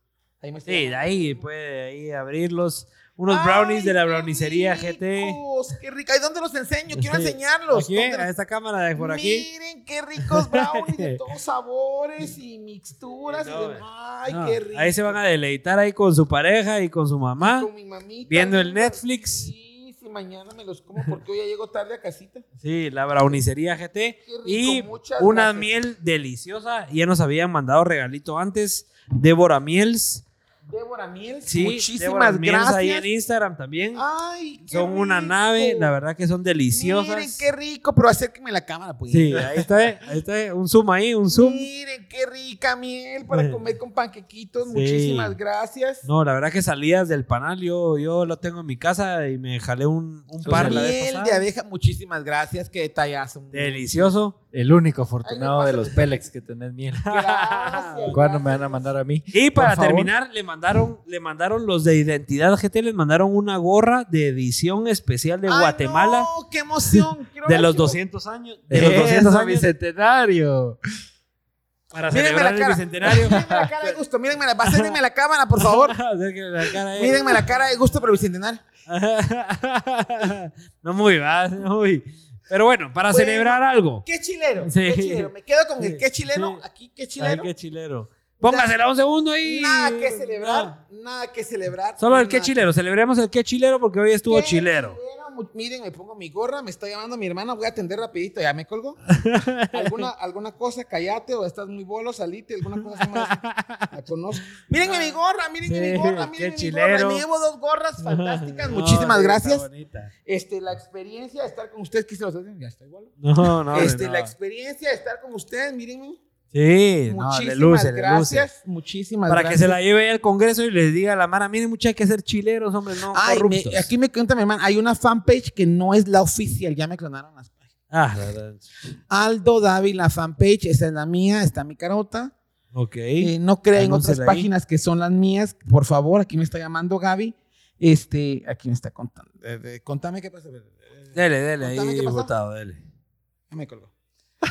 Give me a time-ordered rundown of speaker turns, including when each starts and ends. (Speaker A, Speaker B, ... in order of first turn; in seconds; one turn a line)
Speaker A: 0.4-1.4
Speaker B: 0.7-5.4
Speaker A: 3.3-8.3
Speaker B: 6.9-9.5
Speaker A: 9.0-15.2
Speaker B: 10.2-11.2
Speaker B: 13.3-17.7
Speaker A: 17.4-22.4
Speaker B: 18.3-19.5
Speaker B: 22.6-30.2
Speaker A: 24.2-25.7
Speaker A: 30.7-33.1
Speaker B: 31.5-34.0
Speaker A: 34.0-35.9
Speaker B: 34.7-37.5
Speaker A: 36.7-39.7
Speaker B: 39.1-41.7
Speaker A: 41.3-46.1
Speaker B: 43.3-43.6
Speaker B: 44.7-45.4
Speaker B: 46.0-51.4
Speaker C: 50.4-50.9
Speaker A: 50.5-54.1
Speaker B: 53.5-54.4
Speaker C: 54.5-57.1
Speaker A: 55.2-56.2
Speaker B: 57.0-58.2
Speaker A: 57.1-59.0
Speaker C: 58.1-60.1
Speaker B: 59.3-66.3
Speaker A: 65.5-68.0
Speaker B: 67.5-69.7
Speaker C: 68.7-70.8
Speaker B: 71.9-73.5
Speaker A: 72.1-76.0
Speaker C: 73.2-73.7
Speaker B: 75.6-77.6
Speaker A: 76.9-78.6
Speaker B: 78.9-84.0
Speaker A: 83.1-87.5
Speaker B: 84.6-86.6
Speaker B: 87.2-90.7
Speaker A: 88.4-88.7
Speaker A: 89.4-92.6
Speaker B: 92.0-95.0
Speaker A: 94.3-99.0
Speaker B: 99.1-100.0
Speaker A: 99.7-109.7
Speaker B: 103.0-103.9
Speaker B: 104.5-107.2
Speaker B: 108.0-110.1
Speaker A: 110.2-116.2
Speaker B: 113.2-114.3
Speaker B: 116.5-118.5
Speaker A: 117.1-119.8
Speaker B: 119.3-123.9
Speaker A: 123.1-127.6
Speaker B: 127.9-128.9
Speaker A: 129.1-132.3
Speaker B: 132.7-134.5
Speaker A: 133.2-142.3
Speaker B: 141.2-142.8
Speaker A: 143.5-143.9